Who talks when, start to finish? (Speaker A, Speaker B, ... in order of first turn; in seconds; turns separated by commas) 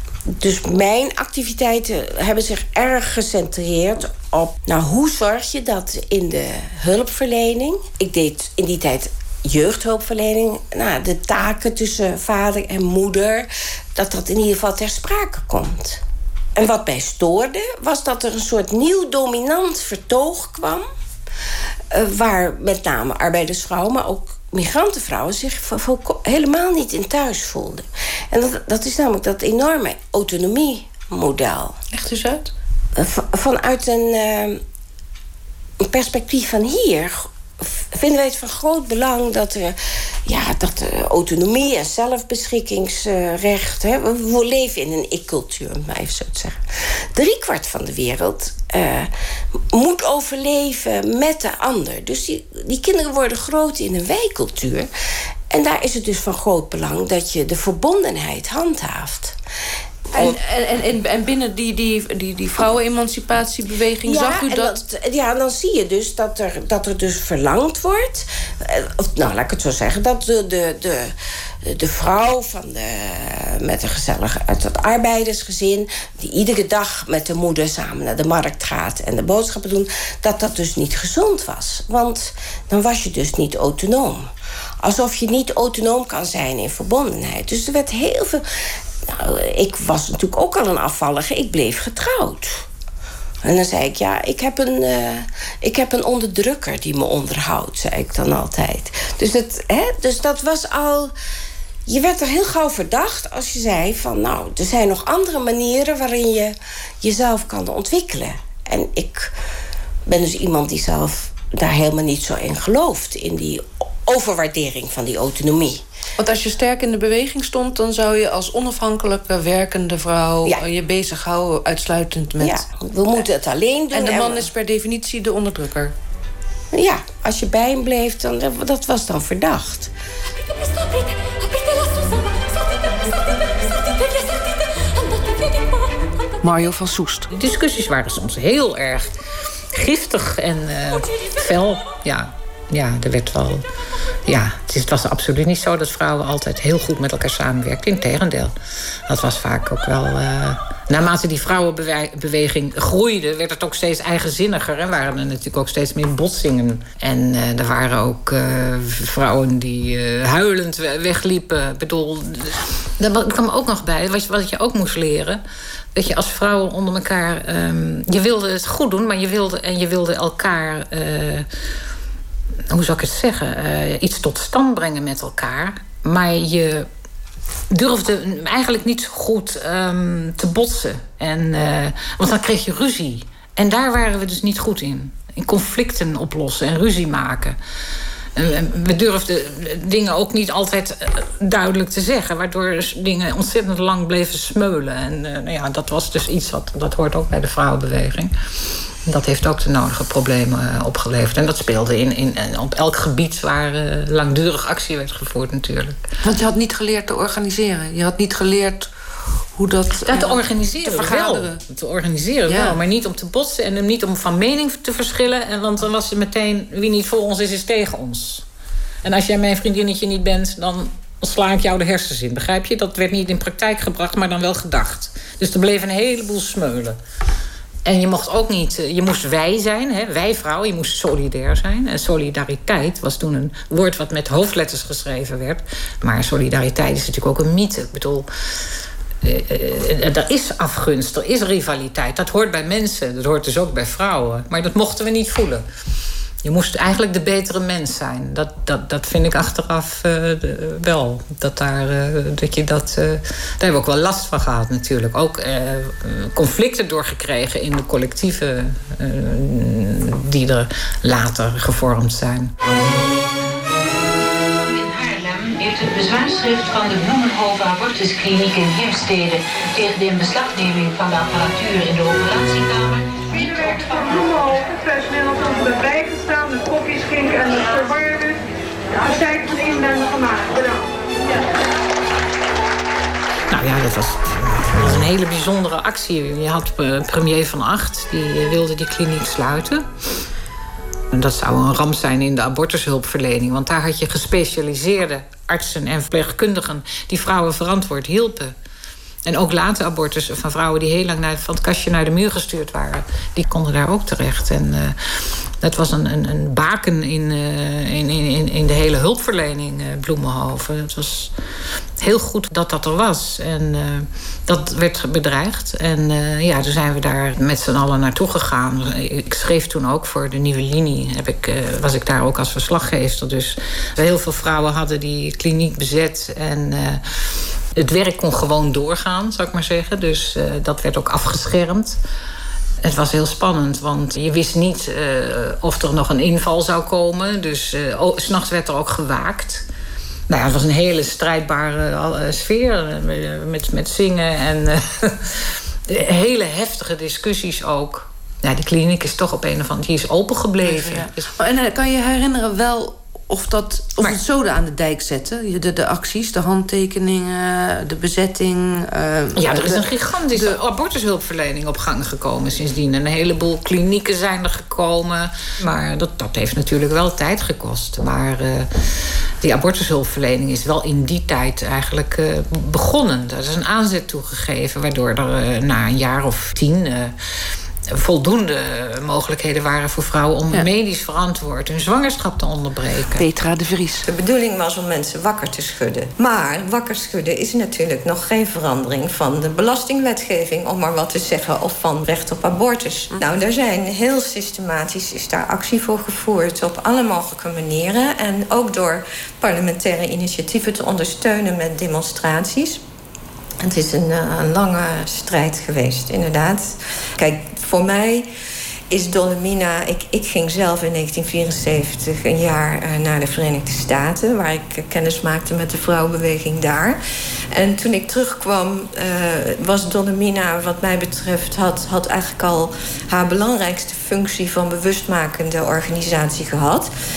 Speaker A: 0.3-16.0, Speaker A: 16.5-20.8, Speaker A: 21.9-31.8, Speaker B: 31.9-32.5, Speaker A: 33.0-34.6, Speaker A: 35.8-39.7, Speaker A: 40.2-46.6, Speaker A: 47.1-49.1, Speaker A: 49.7-54.9, Speaker A: 55.5-59.4, Speaker B: 60.1-64.8, Speaker A: 64.0-71.1, Speaker A: 71.6-84.3, Speaker A: 84.8-88.4, Speaker A: 89.1-92.7, Speaker A: 93.4-101.1, Speaker A: 101.8-109.3, Speaker A: 110.0-115.8, Speaker B: 116.2-122.6, Speaker A: 122.4-124.5, Speaker B: 123.9-125.9, Speaker A: 126.7-129.9, Speaker B: 136.4-137.3, Speaker C: 137.3-139.1, Speaker C: 139.7-143.6, Speaker C: 144.2-148.5, Speaker C: 149.1-165.4, Speaker C: 165.9-171.5, Speaker C: 172.7-176.9, Speaker C: 177.7-187.6, Speaker C: 188.3-198.3, Speaker C: 199.1-206.0, Speaker B: 206.2-208.9, Speaker B: 209.6-211.6, Speaker C: 210.1-218.4, Speaker B: 212.5-212.8, Speaker C: 219.0-227.0, Speaker C: 227.8-238.3, Speaker C: 239.2-245.6, Speaker C: 246.4-262.5, Speaker D: 264.6-274.2, Speaker C: 268.6-269.1, Speaker E: 273.3-278.4, Speaker E: 279.0-280.8, Speaker C: 283.5-289.9, Speaker C: 291.1-298.5, Speaker C: 299.2-305.0, Speaker C: 305.6-311.3, Speaker C: 312.0-327.0, Speaker C: 327.8-332.0, Speaker C: 332.8-339.6, Speaker C: 340.3-351.3, Speaker B: 350.6-360.6, Speaker C: 359.3-368.7, Speaker C: 369.4-377.1, Speaker C: 377.9-383.2, Speaker B: 383.1-384.1, Speaker F: 384.0-402.8, Speaker F: 403.6-408.3, Speaker F: 408.9-417.0, Speaker F: 417.5-426.9